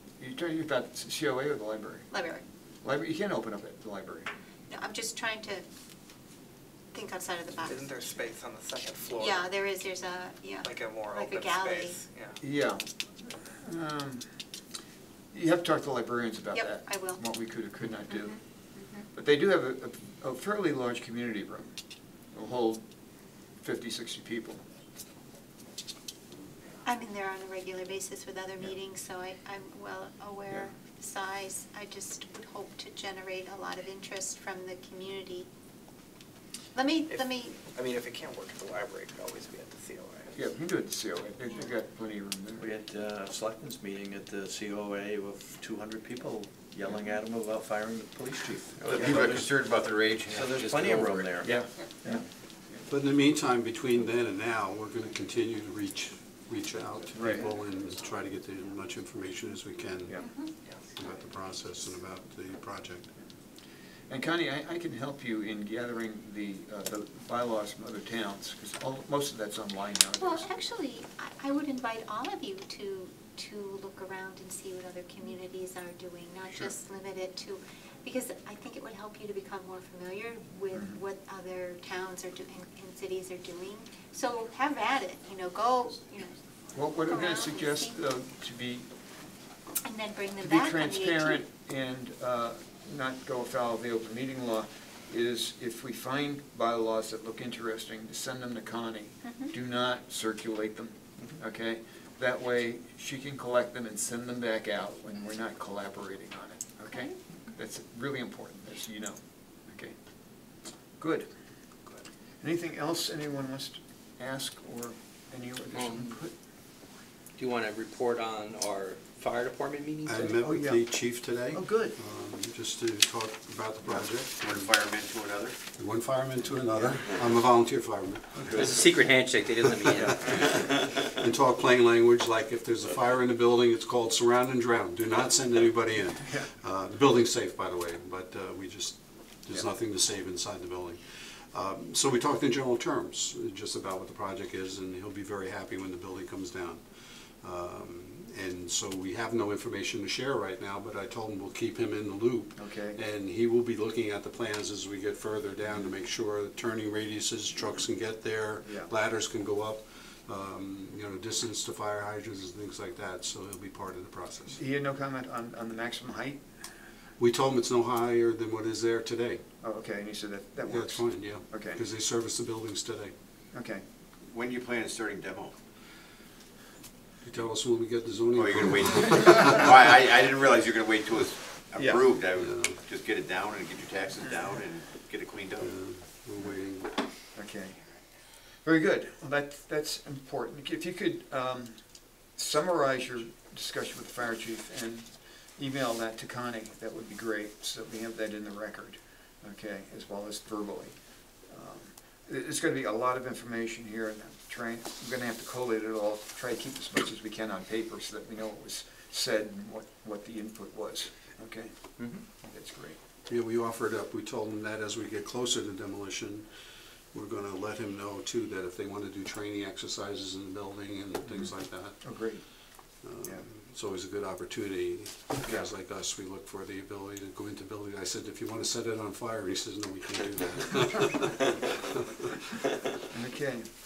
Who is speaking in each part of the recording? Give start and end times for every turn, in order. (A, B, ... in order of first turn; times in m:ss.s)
0:00.2-0:02.1 A
0:02.1-0:02.4 B
0:02.8-0:04.3 A
0:04.7-0:05.6 B
0:06.9-0:08.1 B
0:07.7-0:09.5 C
0:09.2-0:12.0 B
0:10.6-0:12.4 C
0:12.4-0:12.9 A
0:13.5-0:14.3 A
0:15.3-0:18.4 A
0:16.5-0:17.2 B
0:18.1-0:19.1 B
0:19.1-0:21.7 A
0:22.3-0:22.8 A
0:23.6-0:24.6 A
0:26.8-0:35.5 B
0:36.7-0:37.6 B
0:37.1-0:40.3 C
0:40.4-0:42.7 A
0:42.6-0:49.4 D
0:48.8-0:51.6 E
0:50.3-0:52.2 D
0:51.4-0:52.2 A
0:52.9-1:00.2 F
0:57.2-0:57.5 A
1:00.2-1:00.5 B
1:01.0-1:03.1 F
1:04.1-1:10.5 A
1:10.2-1:26.4 B
1:20.7-1:21.0 A
1:26.7-1:28.9 A
1:27.0-1:28.0 B
1:29.8-1:31.4 B
1:30.4-1:50.0 A
1:39.2-1:39.5 B
1:51.0-1:51.3 A
1:52.4-1:56.3 A
1:55.7-1:56.1 G
1:57.4-2:00.4 G
2:00.0-2:04.7 F
2:00.4-2:00.9 A
2:01.5-2:02.0 A
2:03.9-2:05.6 E
2:05.8-2:08.6 F
2:08.5-2:10.6 G
2:09.8-2:26.8 F
2:27.4-2:44.6 F
2:32.6-2:33.0 A
2:38.6-2:38.9 A
2:44.5-2:46.4 A
2:47.2-2:49.4 F
2:49.6-2:51.8 A
2:50.6-2:53.1 F
2:53.5-2:53.8 A
2:54.3-2:55.5 E
2:57.2-2:59.7 F
2:58.4-3:05.8 E
3:02.3-3:02.8 F
3:05.6-3:06.9 F
3:07.3-3:07.8 A
3:08.6-3:11.8 A
3:12.4-3:20.9 A
3:21.5-3:33.0 A
3:33.3-3:36.5 F
3:37.1-3:42.2 F
3:41.2-3:42.4 A
3:43.0-3:52.1 F
3:45.4-3:45.7 A
3:53.1-3:53.7 A